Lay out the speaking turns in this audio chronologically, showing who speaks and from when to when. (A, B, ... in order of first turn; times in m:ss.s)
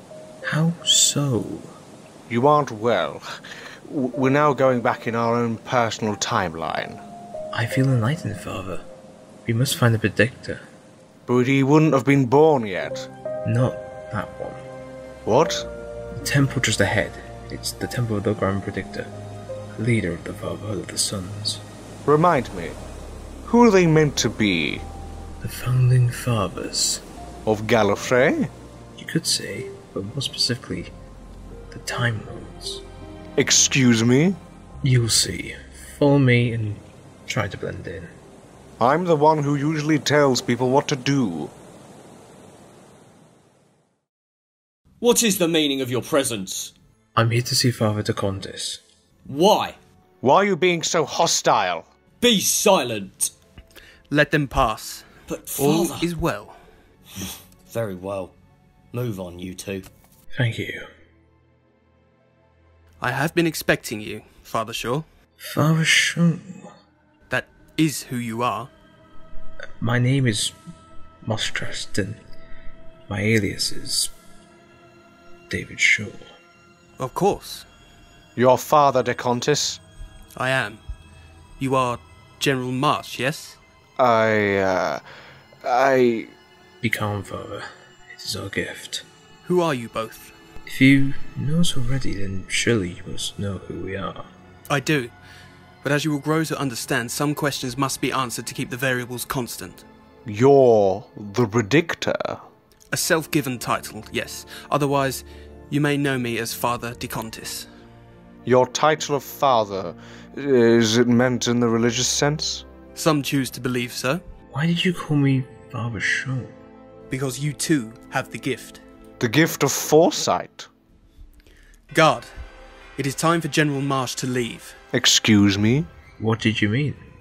0:00.5-0:01.7 A
0:02.3-0:03.2 B
0:03.9-0:07.0 B
0:07.5-0:08.8 A
0:09.4-0:10.6 A
0:11.3-0:13.1 B
0:13.4-0:14.6 A
0:15.2-0:15.7 B
0:16.2-0:19.1 A
0:19.8-0:21.6 A
0:22.1-0:22.8 B
0:23.4-0:24.8 B
0:25.4-0:27.0 A
0:27.4-0:28.5 B
0:29.0-0:30.9 A
0:31.7-0:32.8 A
0:33.4-0:34.4 B
0:34.8-0:38.1 A
0:38.8-0:41.5 B
0:45.0-0:46.7 C
0:47.2-0:48.8 A
0:49.3-0:49.8 C
0:50.2-0:51.9 B
0:52.2-0:53.3 C
0:54.1-0:56.6 D
0:55.3-0:56.1 C
0:57.7-0:58.4 C
0:58.9-0:59.9 C
1:00.3-1:00.9 A
1:03.0-1:05.1 D
1:05.5-1:06.7 A
1:07.3-1:08.7 D
1:09.8-1:10.6 A
1:11.2-1:12.2 A
1:13.1-1:14.1 A
1:15.5-1:16.2 A
1:17.0-1:17.7 D
1:18.4-1:19.8 B
1:20.4-1:20.8 D
1:21.6-1:23.6 D
1:24.0-1:25.0 B
1:25.6-1:26.3 B
1:26.8-1:29.1 A
1:29.4-1:30.3 D
1:30.7-1:34.3 A
1:34.7-1:35.1 D
1:35.8-1:39.8 D
1:40.3-1:42.4 B
1:42.9-1:47.7 D
1:48.5-1:52.6 B
1:53.0-1:54.2 D
1:54.5-1:56.5 A
1:57.1-1:58.8 D
1:59.2-2:00.7 B
2:01.9-2:02.3 D
2:03.0-2:04.8 D
2:04.9-2:05.9 B
2:06.2-2:07.0 A